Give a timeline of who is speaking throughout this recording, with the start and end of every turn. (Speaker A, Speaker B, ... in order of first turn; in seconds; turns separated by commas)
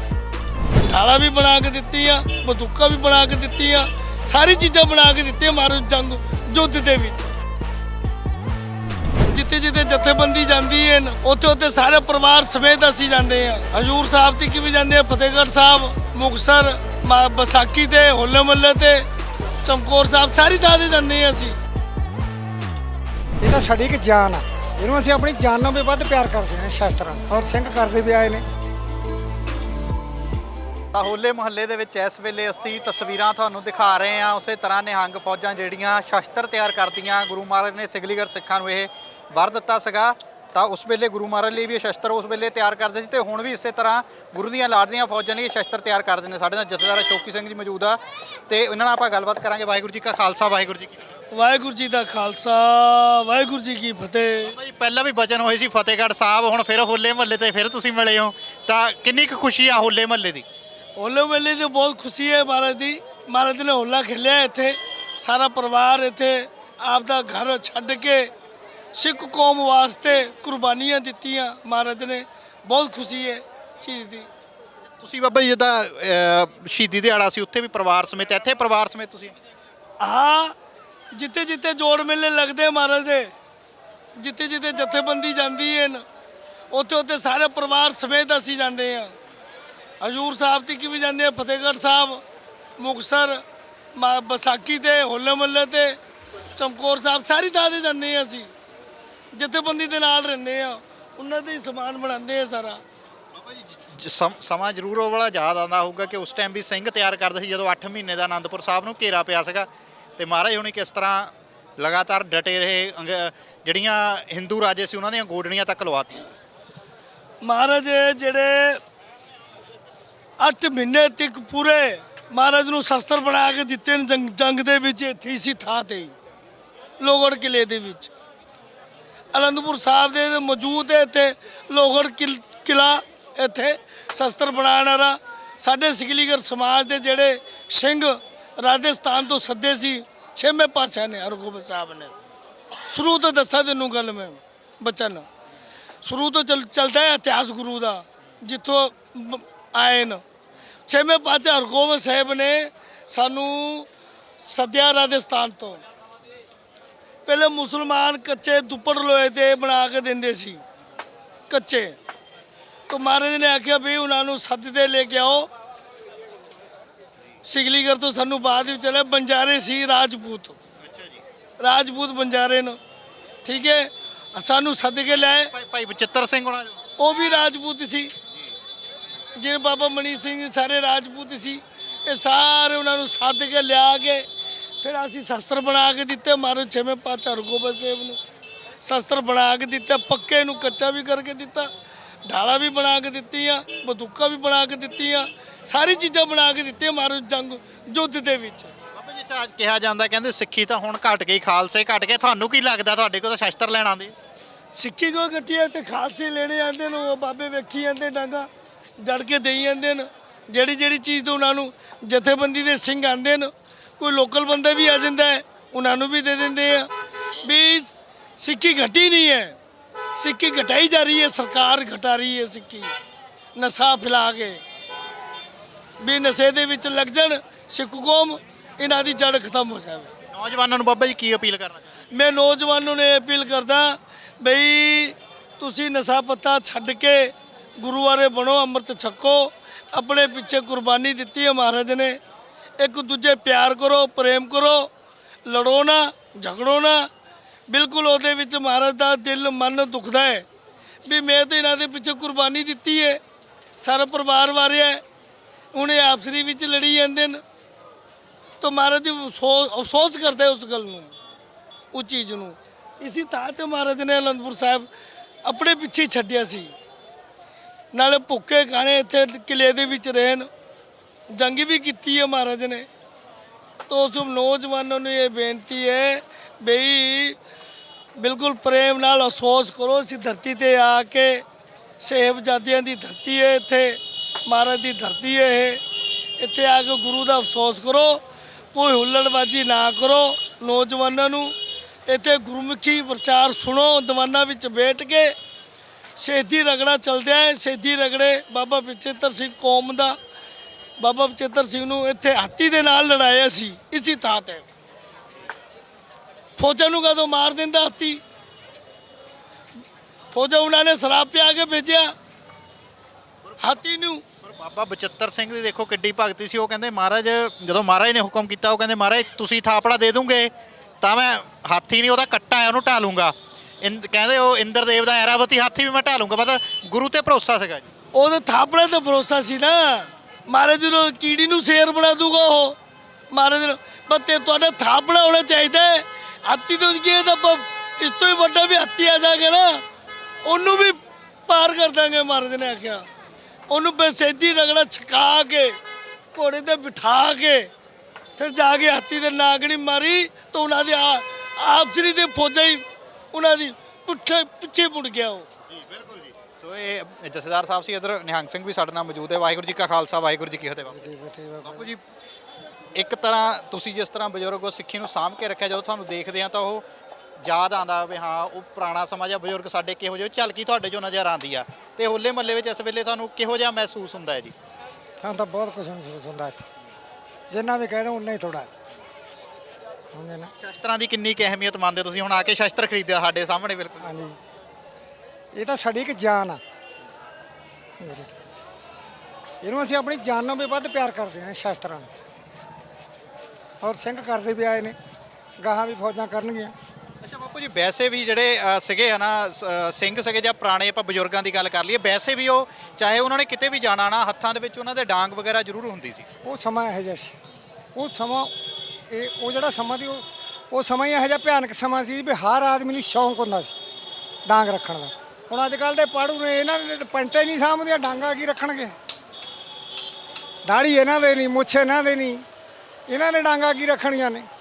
Speaker A: 0.8-7.3, Speaker A: 9.3-19.1, Speaker A: 19.6-21.6, Speaker B: 23.4-28.4, Speaker C: 30.9-51.0, Speaker A: 51.3-54.5, Speaker C: 54.4-60.4, Speaker A: 61.0-68.3, Speaker A: 68.9-74.3, Speaker C: 75.0-79.3, Speaker A: 80.0-80.5, Speaker A: 81.1-83.3, Speaker A: 84.2-86.0, Speaker A: 86.7-89.1, Speaker A: 90.0-92.2, Speaker A: 92.8-93.4, Speaker A: 93.9-96.0, Speaker A: 96.5-98.5, Speaker A: 99.3-102.8, Speaker C: 103.3-116.3, Speaker A: 117.4-118.8, Speaker A: 120.4-126.1, Speaker A: 127.0-128.1, Speaker A: 129.3-142.1, Speaker A: 142.9-145.2, Speaker A: 146.0-150.2, Speaker A: 150.9-153.9, Speaker A: 154.4-155.8, Speaker A: 157.2-160.6, Speaker A: 161.5-161.9, Speaker A: 162.9-165.5, Speaker A: 167.4-170.6, Speaker C: 170.8-171.2, Speaker A: 171.6-172.8, Speaker A: 173.4-175.5, Speaker C: 175.3-176.8, Speaker A: 177.0-178.1, Speaker A: 179.3-184.2, Speaker A: 184.8-188.2, Speaker A: 188.8-191.7, Speaker A: 192.2-198.7, Speaker C: 198.9-204.1, Speaker A: 204.7-216.9, Speaker A: 217.4-219.6, Speaker A: 220.2-222.9, Speaker A: 223.5-224.6, Speaker A: 226.0-230.1, Speaker C: 230.3-231.8, Speaker A: 232.1-242.2, Speaker A: 242.8-244.9, Speaker A: 245.4-247.1, Speaker A: 247.7-250.4, Speaker A: 251.1-253.2, Speaker A: 253.8-255.0, Speaker A: 255.7-257.4, Speaker A: 258.6-261.1, Speaker A: 261.9-264.9, Speaker A: 265.4-266.7, Speaker A: 267.9-270.5, Speaker A: 271.3-272.9, Speaker A: 273.9-277.4, Speaker A: 278.2-281.4, Speaker A: 282.0-285.8, Speaker A: 286.4-288.2, Speaker A: 288.7-291.5, Speaker A: 292.1-295.3, Speaker A: 296.2-300.2, Speaker A: 301.0-304.6, Speaker A: 306.6-308.2, Speaker A: 310.3-312.1, Speaker C: 313.5-313.8, Speaker A: 313.6-314.2, Speaker C: 314.4-320.5, Speaker C: 321.0-327.9, Speaker A: 328.1-332.8, Speaker A: 333.3-339.8, Speaker A: 340.4-343.1, Speaker A: 343.7-345.8, Speaker A: 346.3-347.7, Speaker A: 348.4-355.5, Speaker C: 355.7-361.0, Speaker B: 360.9-361.9, Speaker C: 361.6-362.0, Speaker C: 362.9-366.8, Speaker C: 367.4-374.5, Speaker B: 375.2-376.6, Speaker B: 377.5-378.7, Speaker B: 380.1-380.5, Speaker C: 380.6-384.1, Speaker B: 384.0-384.4, Speaker B: 385.5-386.6, Speaker B: 388.0-388.4, Speaker B: 389.6-392.1, Speaker B: 393.8-394.9, Speaker B: 395.6-396.7, Speaker C: 397.2-406.2, Speaker B: 406.4-407.3, Speaker B: 407.9-408.5, Speaker B: 409.1-413.7, Speaker B: 414.4-418.9, Speaker B: 420.7-422.4, Speaker B: 423.1-424.5